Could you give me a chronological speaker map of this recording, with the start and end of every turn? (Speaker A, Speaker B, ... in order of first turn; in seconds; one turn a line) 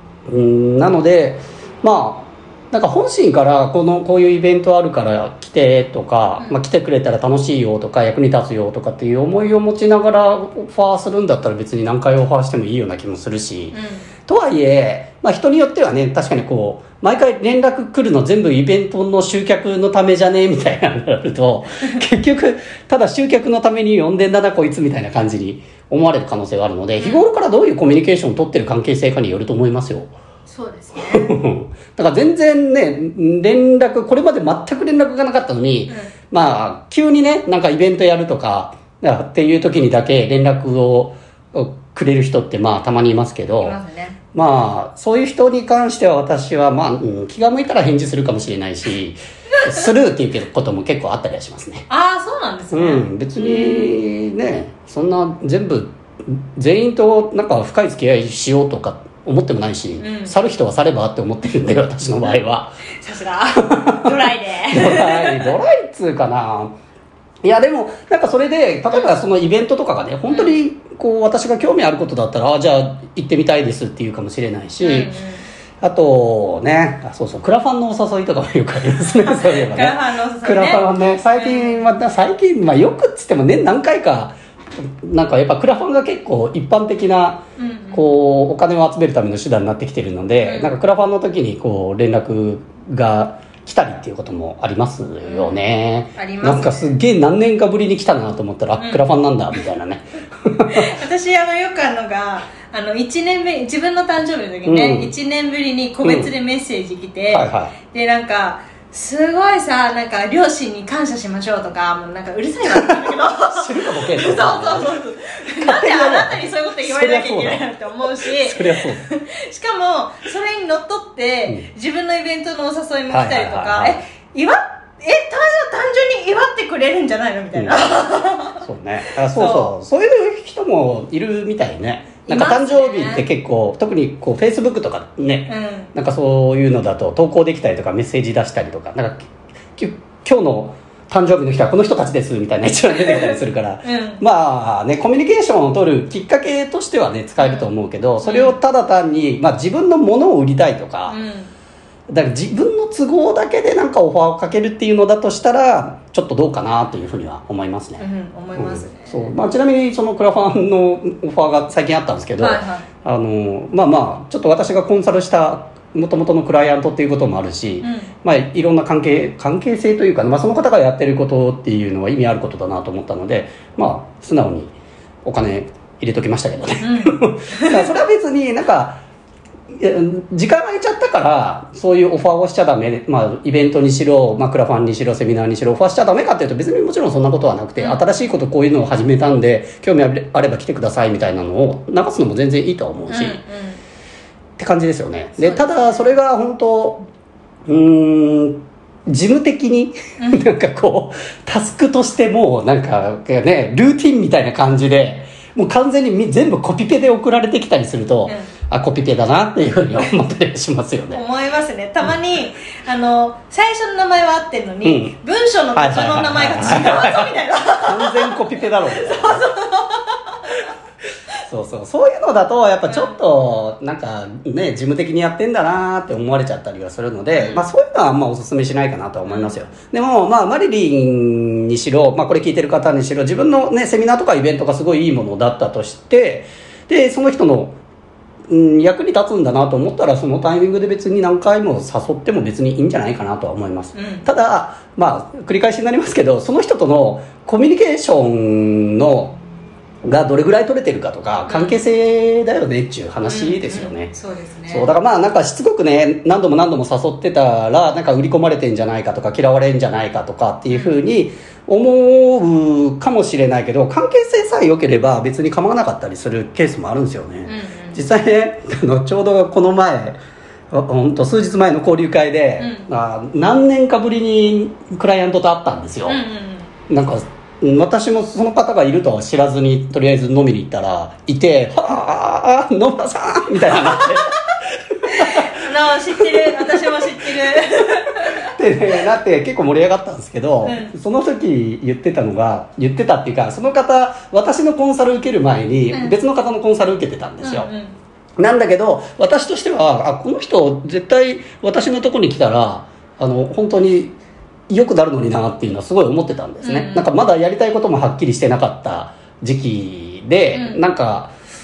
Speaker A: 0.3-30.1
Speaker B: 13.7-14.1
Speaker B: 27.0-27.3
Speaker B: 30.5-31.4
Speaker A: 30.9-43.8
Speaker B: 43.6-44.2
Speaker A: 44.3-51.9
Speaker B: 51.9-54.0
Speaker A: 52.7-62.9
Speaker B: 60.0-60.4
Speaker B: 63.0-65.5
Speaker A: 63.6-64.1
Speaker A: 64.7-66.7
Speaker A: 67.4-75.1
Speaker B: 70.3-70.6
Speaker B: 74.8-75.5
Speaker A: 75.8-84.3
Speaker B: 79.2-81.9
Speaker A: 85.0-100.9
Speaker B: 87.6-88.1
Speaker B: 90.4-90.8
Speaker B: 95.2-95.7
Speaker B: 96.2-96.9
Speaker B: 98.8-99.0
Speaker B: 100.7-128.6
Speaker A: 104.7-105.1
Speaker A: 106.0-106.3
Speaker A: 107.3-107.8
Speaker A: 113.5-115.0
Speaker A: 115.6-117.7
Speaker A: 118.2-119.0
Speaker A: 123.1-124.0
Speaker A: 127.5-127.9
Speaker A: 128.6-151.2
Speaker B: 129.3-129.7
Speaker B: 132.3-133.3
Speaker B: 135.5-135.9
Speaker B: 143.0-144.2
Speaker B: 147.4-147.7
Speaker B: 148.2-148.6
Speaker B: 151.1-151.5
Speaker A: 152.1-179.0
Speaker B: 158.0-159.3
Speaker B: 162.4-162.9
Speaker B: 167.8-168.1
Speaker B: 176.8-177.9
Speaker A: 179.7-193.4
Speaker B: 187.8-188.0
Speaker B: 193.1-193.8
Speaker A: 194.6-197.1
Speaker B: 195.4-196.2
Speaker A: 197.7-211.2
Speaker B: 200.2-200.5
Speaker B: 211.1-220.3
Speaker A: 214.8-215.2
Speaker A: 215.8-217.3
Speaker A: 217.8-219.5
Speaker A: 221.5-237.8
Speaker B: 222.9-223.2
Speaker B: 227.3-227.7
Speaker B: 229.3-229.6
Speaker A: 238.5-249.3
Speaker B: 243.9-244.3
Speaker A: 250.1-254.1
Speaker B: 251.5-251.8
Speaker B: 253.2-254.9
Speaker A: 254.7-270.2
Speaker B: 260.7-261.0
Speaker B: 267.4-268.0
Speaker A: 270.7-276.2
Speaker B: 272.6-272.9
Speaker B: 276.1-276.7
Speaker A: 276.9-284.3
Speaker B: 283.9-284.2
Speaker B: 285.1-288.5
Speaker A: 285.1-285.6
Speaker A: 286.6-287.6
Speaker A: 288.4-297.7
Speaker B: 290.6-290.9
Speaker B: 295.9-296.2
Speaker B: 297.4-298.0
Speaker A: 298.4-304.2
Speaker A: 304.7-311.3
Speaker B: 306.6-307.1
Speaker B: 310.5-310.8